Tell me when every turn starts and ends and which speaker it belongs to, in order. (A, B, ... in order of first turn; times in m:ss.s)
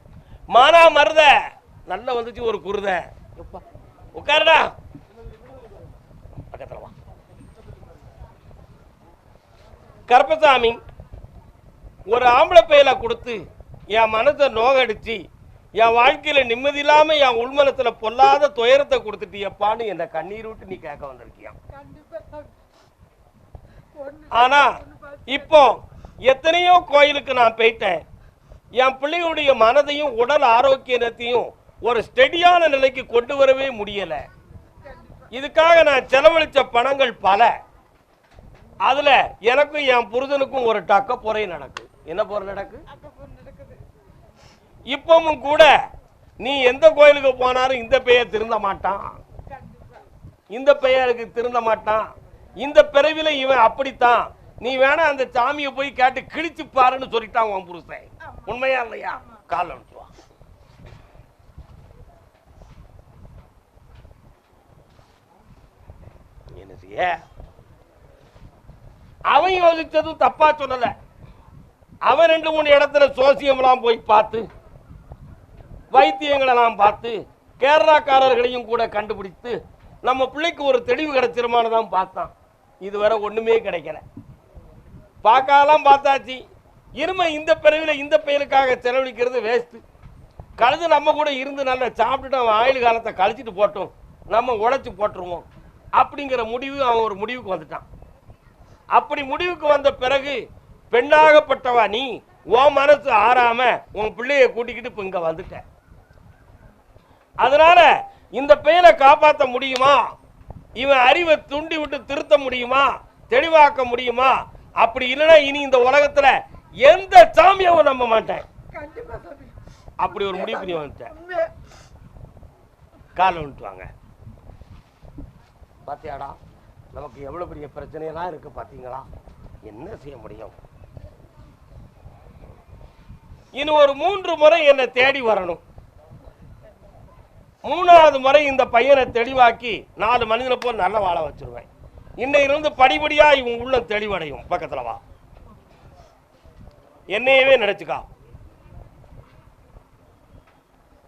0:00.5-0:03.6 A
0:04.1-0:04.7 A
0:06.5-0:06.9 A
0:10.1-0:10.8 A
0:12.1-0:13.4 A
0:13.9-0:15.2 A
0:15.8-0:21.6 A
0:21.7-0:22.5 B
0:23.9-0:24.2 B
0:24.2-0:28.0 A
0:28.8-0:34.2 A
0:35.3-0:37.5 A
0:38.8-0:42.8 A
0:42.9-0:43.8 B
0:44.9-0:45.7 A
0:46.4-0:49.2 A
0:50.5-0:52.1 A
0:52.6-1:00.1 A
1:06.5-1:07.2 A
1:09.3-1:10.9 A
1:12.0-1:14.4 A
1:15.9-1:24.0 A
1:25.2-1:26.4 A
1:27.0-1:29.8 A
1:30.6-1:35.4 A
1:36.0-1:37.8 A
1:38.9-1:45.6 A
1:47.4-1:50.0 A
1:50.8-1:58.5 A
1:58.7-1:59.6 B
2:00.0-2:01.2 A
2:03.1-2:03.9 A
2:05.8-2:06.4 A
2:06.9-2:09.1 A
2:09.6-2:10.6 A
2:13.6-2:15.6 A
2:17.6-2:21.7 A
2:22.2-2:25.0 A
2:27.1-2:28.0 A